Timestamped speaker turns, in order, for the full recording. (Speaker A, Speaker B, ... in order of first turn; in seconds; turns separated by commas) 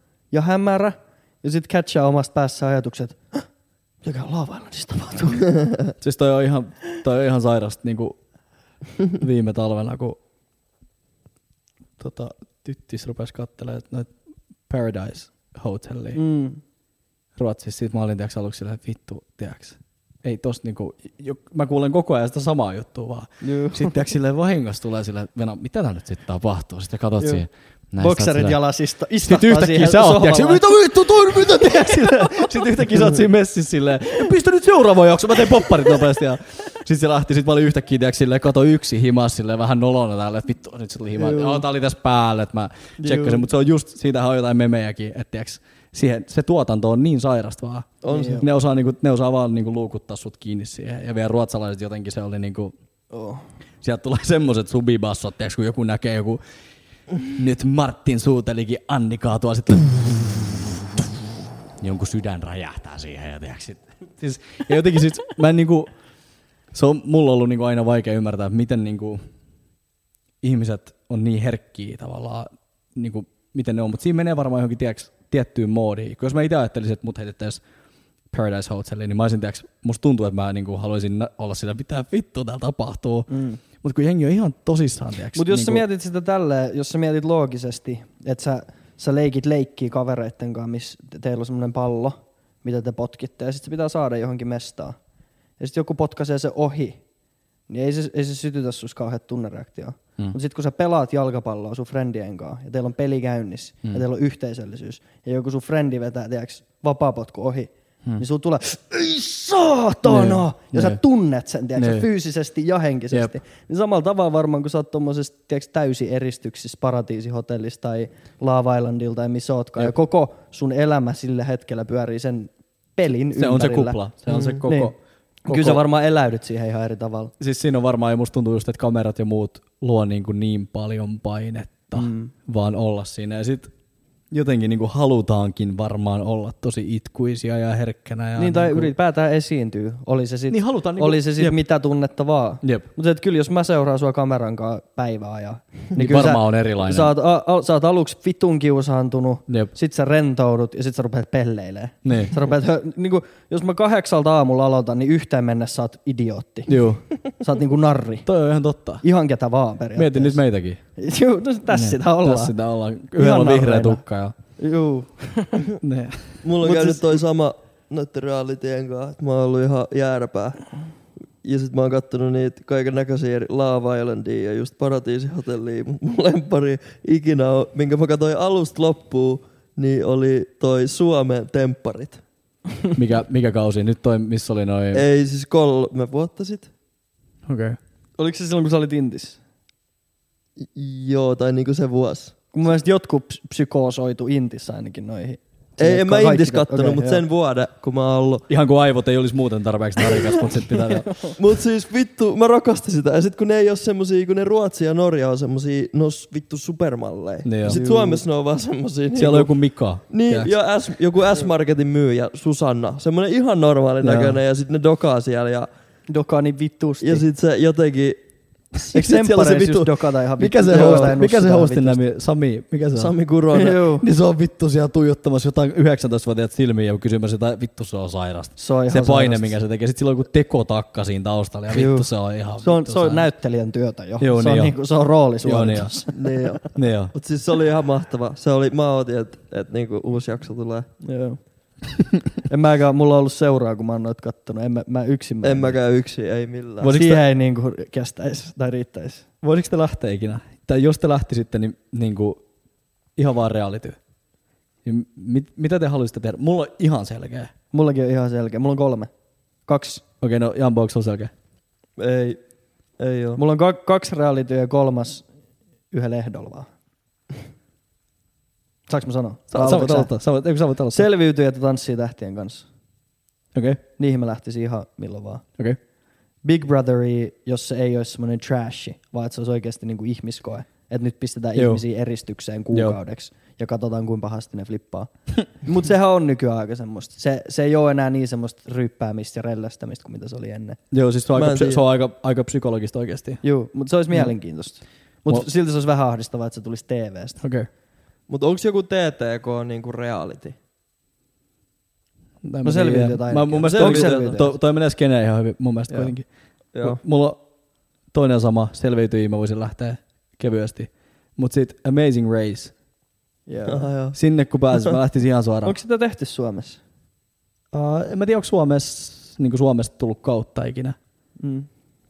Speaker A: 0.3-3.5, Speaker A: 4.0-5.7, Speaker B: 6.0-8.2, Speaker B: 9.2-10.2, Speaker B: 12.0-14.1, Speaker B: 14.7-16.2, Speaker A: 16.1-16.6, Speaker B: 17.4-28.6, Speaker A: 23.4-23.9, Speaker A: 28.0-33.0, Speaker B: 29.2-52.7, Speaker A: 41.2-41.6, Speaker C: 43.0-43.3, Speaker C: 48.0-48.4, Speaker A: 48.1-48.5, Speaker A: 53.1-53.5, Speaker B: 53.8-56.4, Speaker B: 57.2-61.1, Speaker B: 61.8-65.9, Speaker B: 66.7-69.2, Speaker B: 70.4-77.6, Speaker B: 78.3-85.8, Speaker A: 83.3-83.6, Speaker A: 85.4-95.0, Speaker A: 95.6-97.0, Speaker A: 97.7-124.0, Speaker B: 110.0-111.0, Speaker B: 111.8-112.1, Speaker B: 123.4-125.0, Speaker C: 124.3-124.6, Speaker A: 124.6-124.9, Speaker A: 125.5-127.3, Speaker B: 125.5-125.8, Speaker B: 127.4-133.7, Speaker A: 131.9-132.3, Speaker B: 134.3-138.9, Speaker A: 138.4-158.3, Speaker B: 140.5-141.6, Speaker B: 145.9-147.2, Speaker B: 152.1-152.4, Speaker B: 156.7-157.1, Speaker B: 158.2-159.0, Speaker A: 159.0-160.4, Speaker B: 160.0-160.8, Speaker A: 161.0-162.6, Speaker B: 161.7-164.3, Speaker A: 163.1-164.0, Speaker A: 164.6-165.7, Speaker B: 165.8-166.4, Speaker C: 166.4-170.6, Speaker A: 166.6-167.2, Speaker C: 171.4-182.2, Speaker B: 182.9-185.0, Speaker C: 184.9-186.7, Speaker B: 187.5-187.8, Speaker A: 188.2-189.4, Speaker C: 190.6-192.4, Speaker A: 192.5-197.2, Speaker C: 195.8-198.5, Speaker B: 198.5-201.4, Speaker C: 201.3-209.6, Speaker B: 207.4-207.8, Speaker A: 207.7-208.2, Speaker B: 209.2-210.5, Speaker C: 210.1-215.7, Speaker B: 214.0-214.4, Speaker A: 216.1-217.2, Speaker C: 217.0-218.2, Speaker A: 218.9-222.0, Speaker B: 218.9-223.1, Speaker C: 220.7-221.1, Speaker C: 222.9-223.8, Speaker A: 223.5-224.1, Speaker B: 224.0-233.3, Speaker A: 228.6-229.6, Speaker A: 231.7-236.6, Speaker B: 234.2-234.8, Speaker B: 235.4-236.0, Speaker C: 236.1-240.9, Speaker B: 236.7-237.1, Speaker A: 241.0-241.4, Speaker A: 242.5-245.8, Speaker C: 245.4-247.0, Speaker B: 246.8-247.2, Speaker A: 246.8-249.3, Speaker B: 249.4-252.4, Speaker B: 253.2-254.0, Speaker B: 254.8-257.5, Speaker A: 257.7-259.1, Speaker A: 259.7-260.0, Speaker B: 260.2-261.3, Speaker C: 262.0-262.4, Speaker C: 263.0-263.4, Speaker A: 263.4-265.2, Speaker A: 265.9-266.7, Speaker A: 268.9-270.1, Speaker B: 269.5-271.1, Speaker A: 270.9-272.7, Speaker B: 273.5-273.8, Speaker A: 274.0-275.5, Speaker A: 276.4-290.8, Speaker B: 281.6-281.8, Speaker B: 282.7-283.0, Speaker B: 290.9-293.4, Speaker C: 291.4-291.8, Speaker A: 293.4-297.4, Speaker B: 297.4-297.7, Speaker C: 298.3-300.6, Speaker B: 302.4-306.3, Speaker A: 302.6-304.5, Speaker C: 303.7-304.4, Speaker B: 306.8-307.4, Speaker B: 308.1-312.7, Speaker A: 313.5-313.9, Speaker C: 313.7-314.2, Speaker B: 314.1-315.8, Speaker A: 315.6-316.8, Speaker B: 317.7-321.0, Speaker A: 321.4-321.7